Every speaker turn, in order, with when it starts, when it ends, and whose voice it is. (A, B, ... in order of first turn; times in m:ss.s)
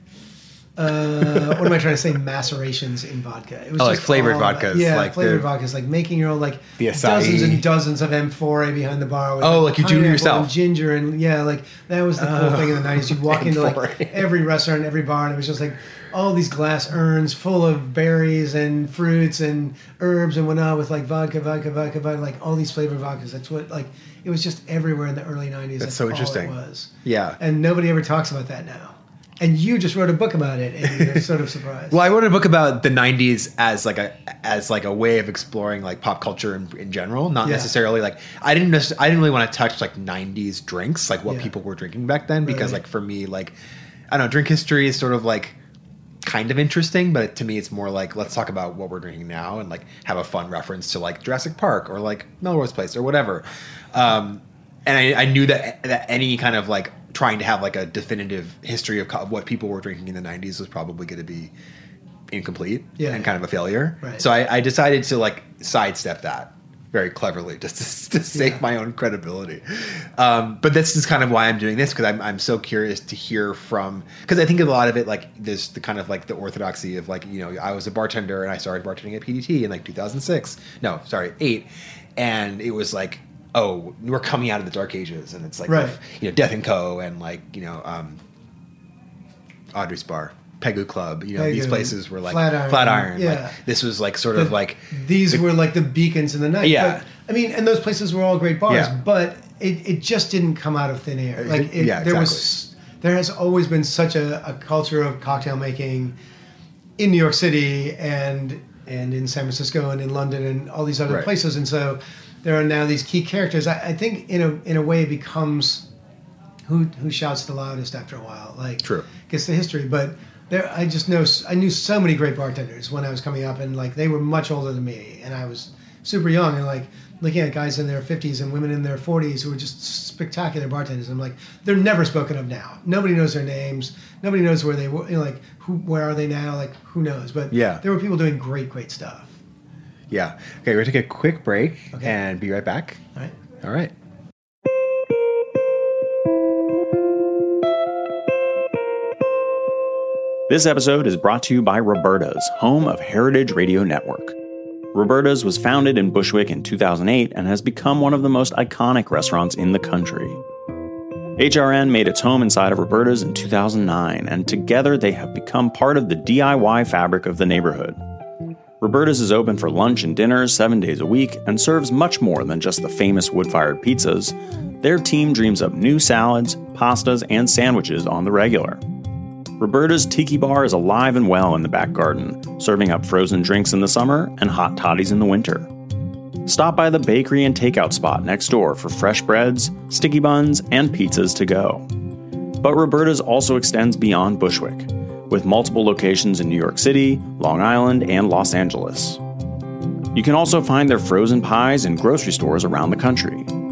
0:00.8-0:32.0 A
0:01.3-0:01.6 B
0:03.8-0:05.5 B
0:06.8-0:07.6 B
0:09.4-0:10.5 B
0:12.2-0:14.2 B
0:25.8-0:27.4 B
0:31.9-0:43.5 B
0:37.4-0:37.7 A
0:42.4-0:42.8 A
0:44.1-0:45.6 B
0:46.2-1:01.5 B
1:02.3-1:28.2 B
1:03.0-1:03.3 A
1:08.3-1:08.6 A
1:25.7-1:26.0 A
1:29.7-1:35.4 B
1:31.4-1:33.6 A
1:34.4-1:46.1 A
1:36.6-1:37.0 B
1:38.7-1:38.9 B
1:41.4-1:42.5 B
1:47.0-1:55.9 A
1:56.6-2:19.4 A
1:58.8-1:59.1 B
2:17.5-2:17.8 B
2:20.1-2:23.0 B
2:23.6-2:23.9 B
2:30.5-2:34.4 C
2:34.9-2:40.4 C
2:41.4-2:48.0 C
2:48.8-2:58.8 C
2:59.6-3:05.7 C
3:06.4-3:11.9 C
3:12.6-3:19.2 C
3:20.1-3:23.5 C